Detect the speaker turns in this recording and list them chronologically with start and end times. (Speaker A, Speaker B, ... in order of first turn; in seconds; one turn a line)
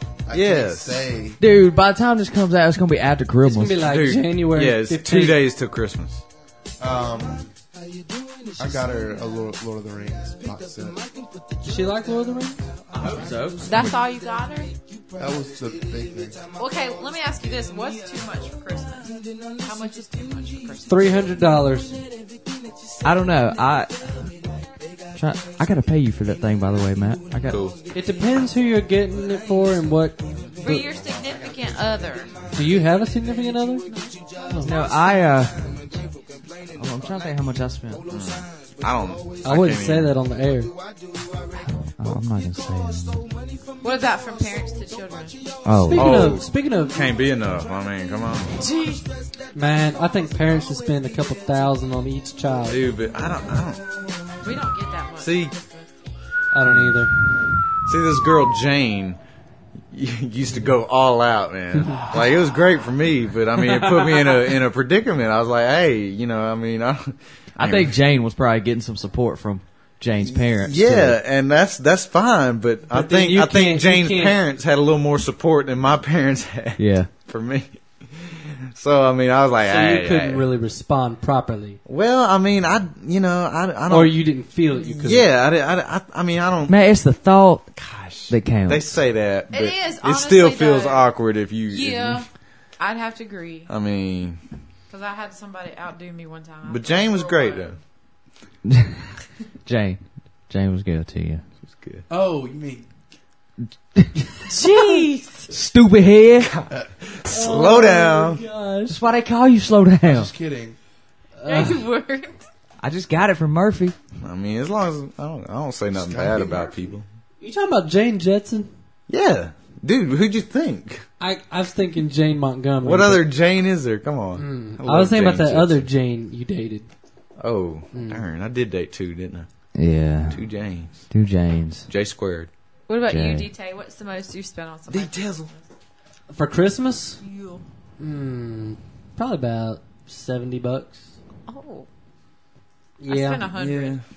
Speaker A: 0.2-1.4
Speaker B: 0.3-1.0
Speaker C: 1.4-3.9
Speaker D: 3.4-5.4
Speaker B: 3.8-6.2
Speaker A: 6.8-7.5
Speaker A: 8.6-11.0
Speaker D: 11.6-12.6
Speaker C: 12.9-13.9
Speaker E: 13.6-14.7
Speaker A: 13.7-13.9
Speaker A: 15.2-16.4
Speaker E: 16.6-21.2
Speaker D: 20.8-22.0
Speaker C: 23.0-24.3
Speaker C: 25.1-27.6
Speaker B: 27.4-27.8
Speaker D: 27.9-30.9
Speaker E: 30.6-32.4
Speaker D: 32.5-33.9
Speaker E: 33.8-34.8
Speaker D: 34.4-34.7
Speaker C: 34.6-35.6
Speaker C: 36.7-38.1
Speaker B: 38.1-40.1
Speaker D: 39.4-40.7
Speaker C: 41.8-43.3
Speaker E: 43.8-45.4
Speaker C: 45.6-46.2
Speaker D: 45.9-47.0
Speaker B: 45.9-48.5
Speaker E: 48.5-49.1
Speaker D: 49.5-52.8
Speaker B: 52.7-53.9
Speaker E: 54.4-55.9
Speaker B: 55.2-55.5
Speaker D: 56.5-57.1
Speaker B: 57.8-59.2
Speaker B: 59.9-67.9
Speaker C: 67.6-71.2
Speaker B: 70.2-80.5
Speaker D: 72.9-74.4
Speaker C: 76.8-77.1
Speaker D: 79.6-81.8
Speaker B: 81.8-84.2
Speaker D: 83.9-85.3
Speaker B: 84.8-86.8
Speaker C: 86.7-87.7
Speaker B: 87.7-92.2
Speaker C: 88.3-88.9
Speaker E: 89.5-93.7
Speaker B: 93.7-94.4
Speaker E: 94.9-97.7
Speaker B: 96.6-97.8
Speaker C: 98.7-98.9
Speaker C: 99.7-101.4
Speaker B: 101.6-102.0
Speaker A: 102.1-102.9
Speaker E: 104.5-105.5
Speaker C: 105.5-106.5
Speaker B: 107.2-108.4
Speaker D: 107.3-109.0
Speaker C: 108.9-110.3
Speaker A: 110.0-110.8
Speaker D: 111.4-111.8
Speaker E: 111.4-112.4
Speaker C: 112.8-113.9
Speaker B: 114.2-117.0
Speaker A: 115.9-116.9
Speaker D: 117.4-118.7
Speaker B: 119.1-121.0
Speaker D: 121.2-123.2
Speaker B: 122.8-125.8
Speaker D: 124.3-126.9
Speaker B: 127.4-129.5
Speaker D: 127.9-128.2
Speaker C: 129.7-130.4
Speaker B: 130.3-131.1
Speaker C: 131.1-131.9
Speaker B: 131.9-132.5
Speaker E: 132.9-135.6
Speaker C: 133.1-133.5
Speaker B: 134.9-135.5
Speaker D: 136.3-137.2
Speaker E: 137.2-137.6
Speaker D: 138.0-141.1
Speaker E: 141.5-141.9
Speaker D: 143.0-143.5
Speaker E: 143.1-144.0
Speaker B: 143.5-144.0